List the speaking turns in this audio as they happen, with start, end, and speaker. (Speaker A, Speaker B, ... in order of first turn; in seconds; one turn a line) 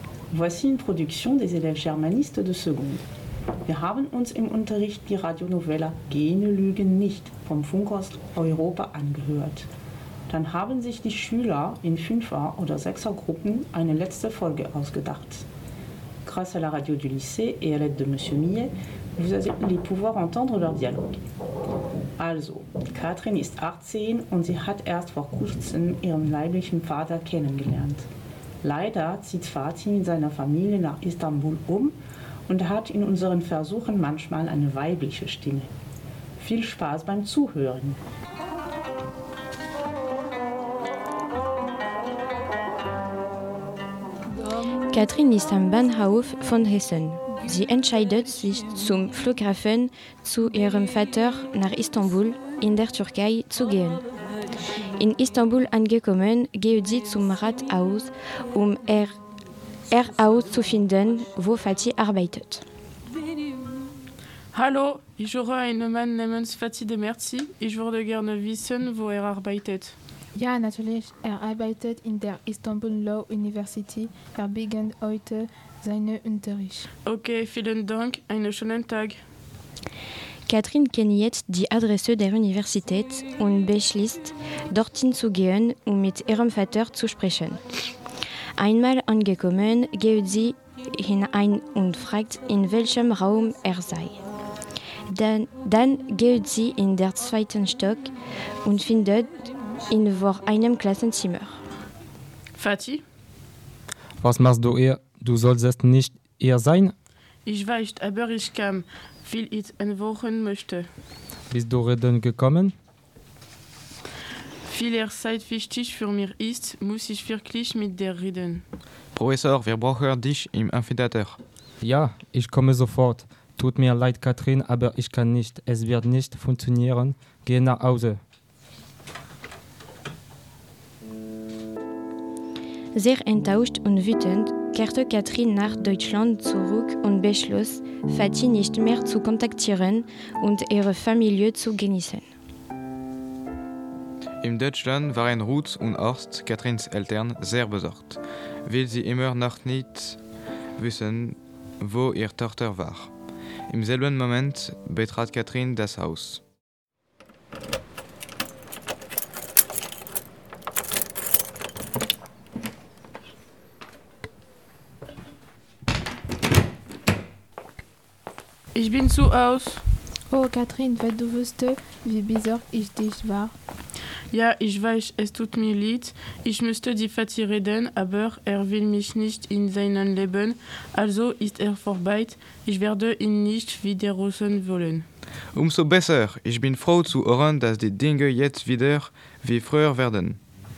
Speaker A: 0.3-3.0
Speaker A: 3.6-9.7
Speaker A: 10.3-15.5
Speaker A: 16.2-21.2
Speaker A: 22.2-28.1
Speaker A: 28.6-31.9
Speaker A: 32.5-35.7
Speaker A: 36.4-38.0
Speaker B: 44.9-54.0
Speaker B: 55.0-59.2
Speaker B: 59.9-62.6
Speaker C: 64.5-70.0
Speaker D: 70.3-76.9
Speaker C: 77.0-79.2
Speaker B: 80.5-87.6
Speaker B: 88.6-94.2
Speaker B: 95.1-98.1
Speaker B: 98.6-101.6
Speaker C: 102.5-103.0
Speaker E: 104.2-106.9
Speaker C: 107.5-110.8
Speaker E: 111.5-112.7
Speaker C: 114.7-118.6
Speaker F: 119.1-121.4
Speaker E: 121.8-128.2
Speaker B: 132.9-142.3
Speaker F: 144.4-150.2
Speaker F: 150.8-153.1
Speaker F: 153.7-156.4
Speaker C: 168.7-169.8
Speaker D: 170.3-173.5
Speaker C: 174.3-185.0
Speaker F: 185.5-190.4